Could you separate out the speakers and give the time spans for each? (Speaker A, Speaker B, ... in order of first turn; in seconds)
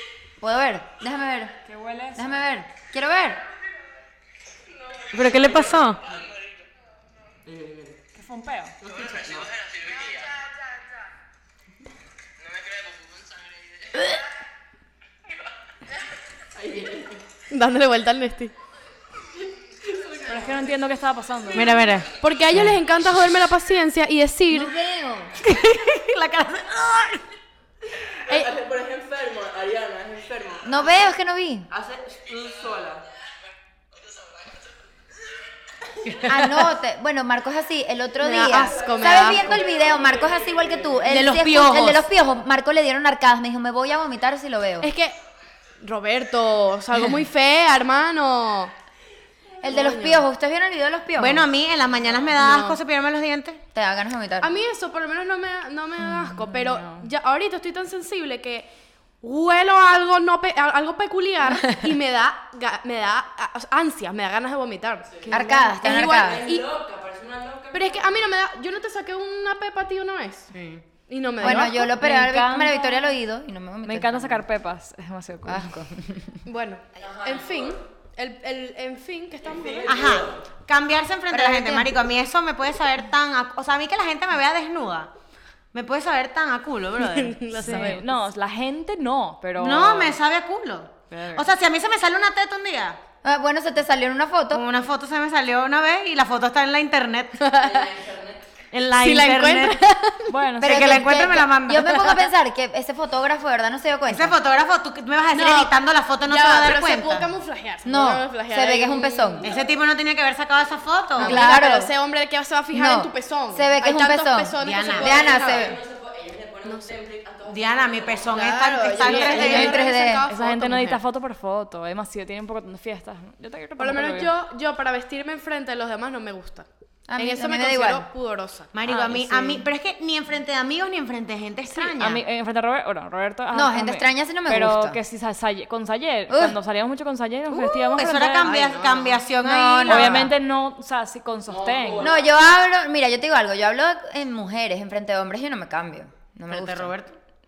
Speaker A: 0.4-1.5, 2.1-3.4, 24.5-25.4, 30.6-31.7, 36.3-44.9, 49.6-51.5, 53.7-54.5, 65.3-66.5, 71.4-74.4, 75.5-76.4, 81.4-81.9, 93.2-94.6, 100.6-104.3, 107.8-109.5, 111.2-111.9, 112.7-115.8, 119.0-120.3, 127.1-128.1, 133.5-135.0, 136.3-136.6, 139.4-140.3, 142.0-146.9
Speaker B: 1.6-2.4, 8.1-8.8, 20.2-21.8, 56.0-57.1, 71.4-73.1, 73.8-75.8, 87.6-90.2, 91.1-91.5, 100.3-101.2, 120.3-124.3, 131.7-138.5, 139.9-142.1
Speaker C: 5.1-6.0, 21.5-22.1, 25.4-27.2, 36.1-36.5, 41.1-42.1, 51.2-53.6, 70.5-70.8, 79.9-85.1, 85.7-88.0, 89.6-93.0, 94.5-97.4, 98.7-99.8, 100.6-102.3, 104.1-107.3, 109.4-111.4, 114.6-115.3, 117.5-119.8, 128.7-132.2, 137.5-140.3, 146.5-147.2
Speaker D: 5.1-6.2, 7.5-8.0, 8.8-9.5, 16.6-17.2, 19.9-20.4, 28.3-30.8, 31.7-33.0, 38.8-41.1, 65.8-68.3, 77.0-77.8, 79.4-80.4, 97.5-98.4, 115.0-118.5, 141.5-142.3
Speaker E: 17.5-18.5, 22.2-24.8, 38.2-39.6, 44.8-45.2, 45.8-48.7, 49.6-50.3, 52.4-52.8, 54.4-58.7, 59.2-66.7, 67.7-70.5, 71.1-72.0, 76.5-80.2, 87.0-88.0, 97.4-97.8, 99.0-100.3, 105.3-109.5, 111.2-115.7, 116.7-116.9, 118.3-121.0, 123.8-126.7, 127.2-129.6, 138.4-139.2